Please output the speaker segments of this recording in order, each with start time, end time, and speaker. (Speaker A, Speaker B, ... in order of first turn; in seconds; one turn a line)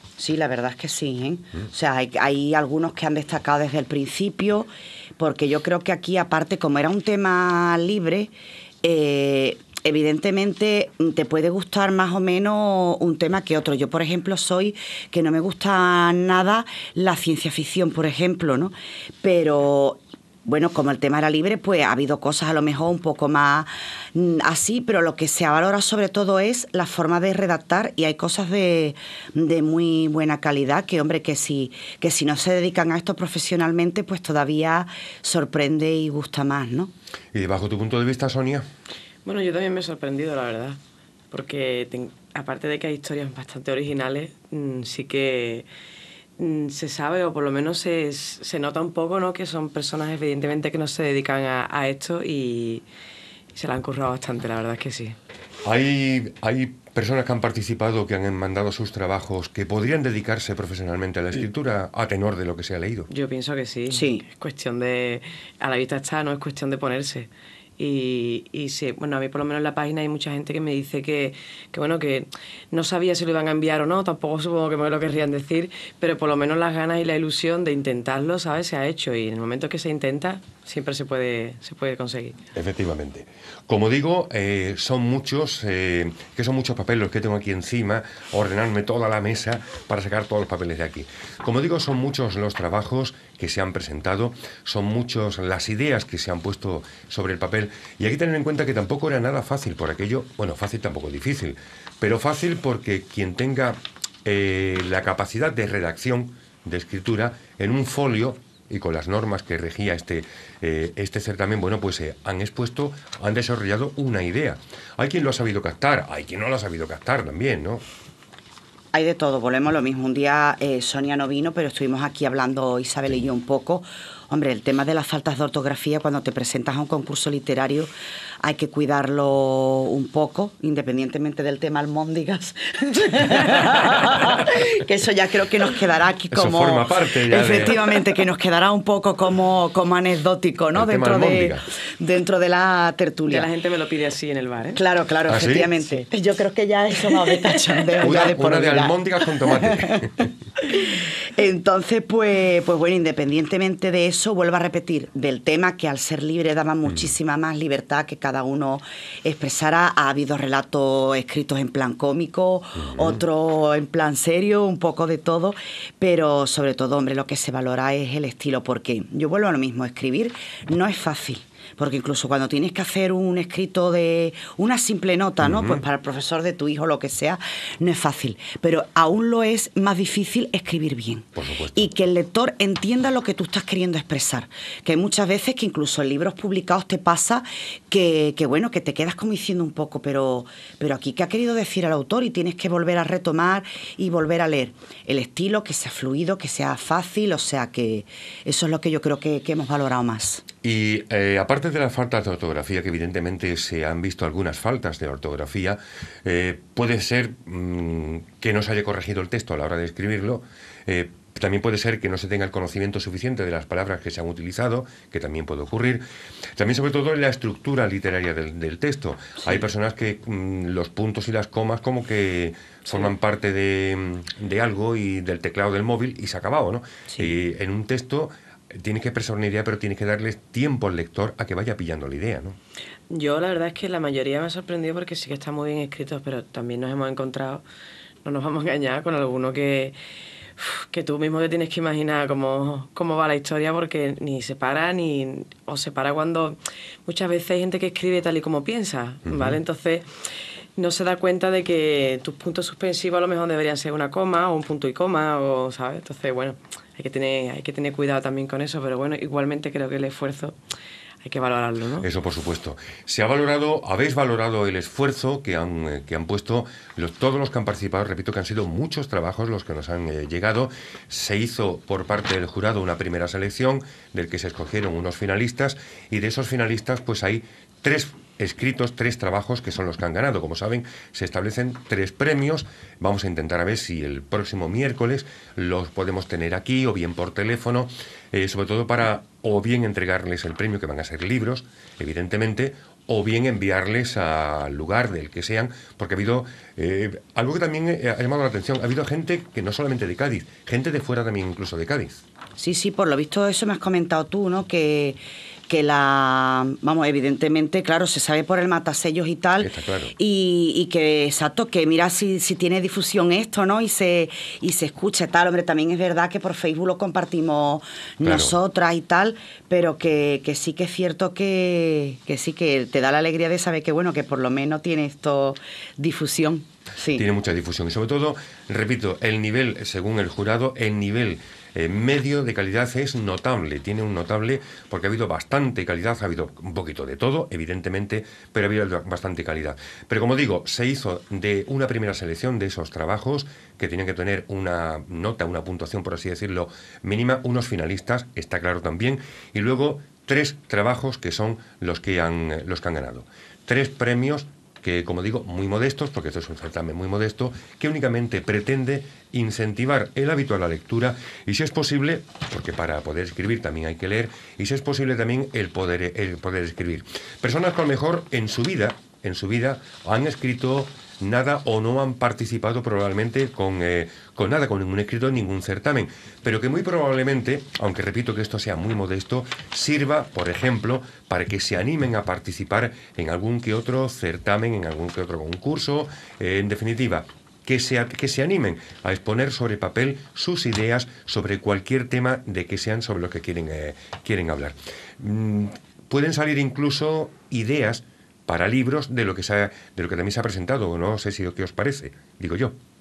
Speaker A: 0.2-8.3
Speaker A: 8.8-36.9
Speaker B: 37.3-38.7
Speaker C: 39.2-40.8
Speaker C: 41.3-45.7
Speaker C: 46.4-52.9
Speaker C: 53.5-55.2
Speaker B: 55.6-63.1
Speaker C: 63.1-82.4
Speaker A: 63.9-64.2
Speaker B: 82.5-117.8
Speaker A: 118.9-127.9
Speaker A: 128.4-143.5
Speaker B: 136.3-137.8
Speaker B: 140.7-141.6
Speaker C: 143.3-144.8
Speaker A: 144.8-150.1
Speaker B: 145.3-145.7
Speaker B: 148.0-150.3
Speaker A: 150.7-200.4
Speaker B: 162.8-163.2
Speaker B: 175.4-175.8
Speaker B: 181.4-181.9
Speaker B: 200.6-216.0
Speaker B: 216.6-232.6
Speaker C: 233.1-237.6
Speaker C: 238.2-239.9
Speaker C: 240.6-250.1
Speaker B: 249.3-249.6
Speaker C: 250.8-260.6
Speaker C: 261.2-262.1
Speaker B: 262.0-302.2
Speaker A: 302.6-327.3
Speaker B: 309.6-310.1
Speaker B: 318.2-318.5
Speaker B: 327.1-402.8